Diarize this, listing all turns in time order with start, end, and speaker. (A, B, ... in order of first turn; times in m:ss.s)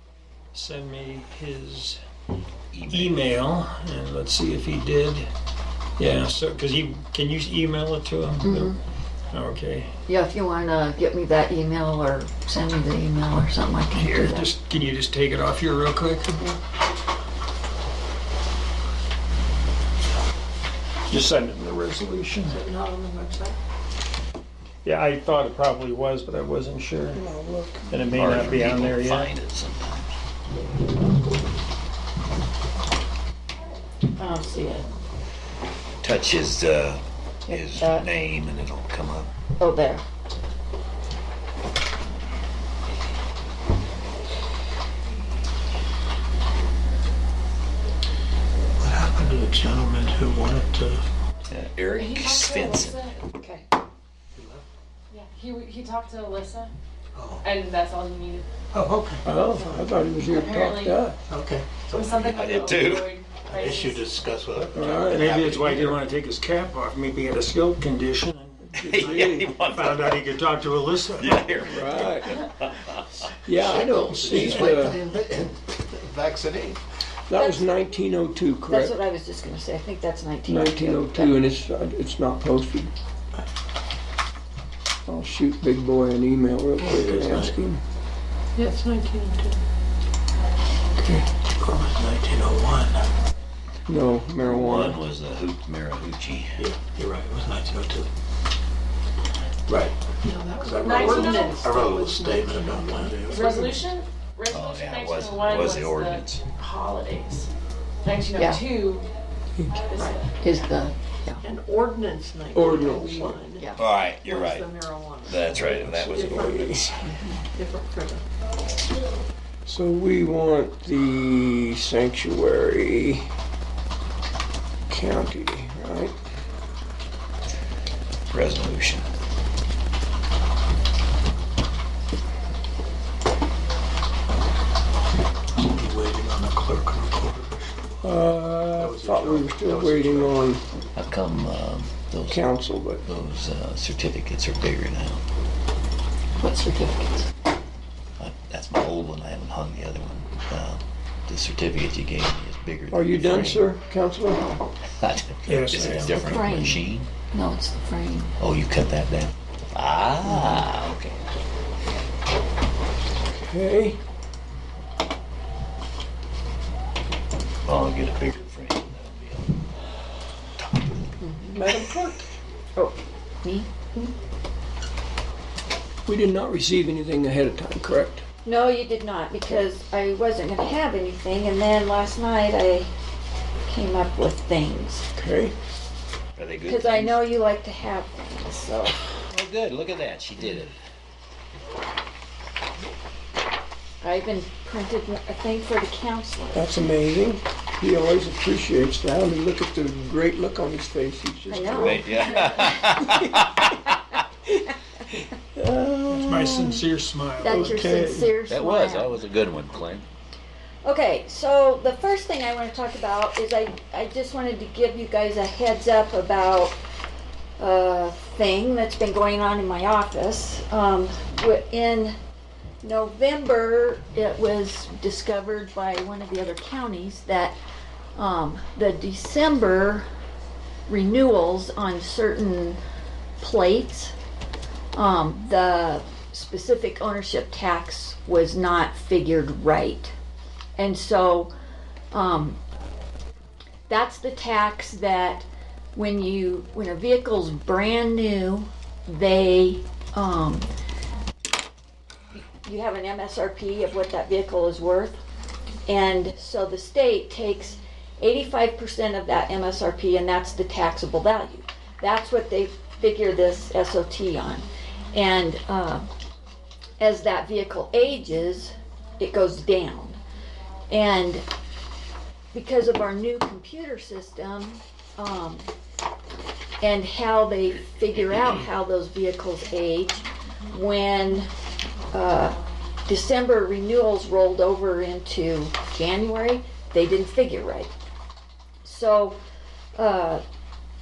0:00.5-0:02.0 A
0:02.7-0:03.4 B
0:02.9-0:05.3 A
0:06.0-0:08.7 A
0:08.4-0:08.8 C
0:09.3-0:09.9 A
0:10.1-0:14.5 C
0:14.0-0:16.5 A
0:21.1-0:22.6 A
0:22.5-0:23.6 D
0:24.8-0:27.2 A
0:27.1-0:28.2 E
0:27.9-0:29.3 A
0:28.1-0:30.1 B
0:34.2-0:34.9 C
0:36.0-0:39.3 B
0:37.5-0:38.1 C
0:39.6-0:40.0 C
0:48.8-0:51.0 F
0:51.5-0:53.1 B
0:52.0-0:53.7 G
0:54.4-0:54.7 F
0:55.1-0:56.7 G
0:57.1-0:57.5 F
0:57.4-0:58.5 G
0:58.7-0:59.3 F
0:59.2-1:01.2 E
0:59.6-1:01.0 G
1:01.3-1:02.6 F
1:01.9-1:04.1 G
1:02.2-1:03.2 B
1:03.3-1:05.1 F
1:04.6-1:11.4 A
1:04.7-1:05.3 E
1:04.8-1:06.0 B
1:08.7-1:09.5 E
1:08.8-1:10.2 B
1:11.2-1:15.0 B
1:11.6-1:12.4 E
1:13.4-1:15.0 E
1:13.6-1:16.8 F
1:17.3-1:19.0 E
1:17.3-1:17.7 C
1:18.7-1:21.4 C
1:20.5-1:22.9 E
1:25.1-1:27.8 E
1:26.8-1:27.6 F
1:28.6-1:29.6 D
1:31.0-1:31.3 E
1:31.6-1:33.1 F
1:33.9-1:35.0 E
1:34.4-1:36.7 B
1:36.6-1:38.1 F
1:39.7-1:40.0 F
1:40.2-1:43.1 D
1:40.6-1:43.8 F
1:40.8-1:41.7 G
1:43.3-1:47.5 G
1:44.5-1:46.4 B
1:48.0-1:49.0 G
1:48.4-1:48.6 C
1:49.9-1:50.3 G
1:50.4-1:51.4 C
1:51.4-1:58.2 D
1:52.5-1:53.3 E
1:52.9-1:53.4 G
1:53.8-1:54.7 B
1:55.2-1:56.8 B
1:55.6-1:57.0 E
1:57.1-1:57.4 C
1:59.6-2:03.3 E
2:04.9-2:06.2 E
2:08.3-2:09.1 B
2:15.6-2:17.9 F
2:18.0-2:20.6 E
2:18.7-2:20.5 F
2:21.0-2:25.2 B
2:22.3-2:23.0 E
2:26.4-2:27.3 C
2:28.2-2:33.7 B
2:32.9-2:34.6 E
2:35.0-2:37.1 B
2:35.4-2:36.5 A
2:36.2-2:38.3 C
2:38.4-2:41.2 B
2:40.3-2:40.6 C
2:43.2-2:44.0 E
2:47.6-2:49.5 B
2:50.6-2:51.2 B
2:51.2-2:51.7 C
2:51.6-2:52.2 E
2:52.8-2:53.7 C
2:56.1-2:58.2 E
2:58.4-3:02.9 C
3:03.7-3:05.1 C
3:05.2-3:05.6 E
3:06.4-3:07.2 B
3:06.6-3:09.1 C
3:09.3-3:10.8 B
3:14.0-3:16.6 C
3:16.5-3:22.7 E
3:21.5-3:22.8 C
3:21.7-3:23.6 B
3:25.6-3:26.8 E
3:26.1-3:27.8 A
3:27.4-3:29.2 C
3:27.5-3:28.3 E
3:28.5-3:30.1 B
3:30.8-3:36.8 C
3:37.6-3:42.2 C
3:42.8-3:47.6 C
3:48.2-3:50.0 C
3:50.9-3:52.8 C
3:53.4-3:54.1 C
3:55.0-4:00.1 C
4:00.8-4:01.5 C
4:02.1-4:02.6 C
4:03.9-4:10.7 C
4:12.3-4:15.2 C
4:15.9-4:26.1 C
4:27.0-4:30.2 C
4:30.9-4:31.4 C
4:32.5-4:35.7 C
4:36.8-4:41.5 C
4:42.1-4:47.9 C
4:48.8-4:49.4 C
4:50.0-4:50.4 C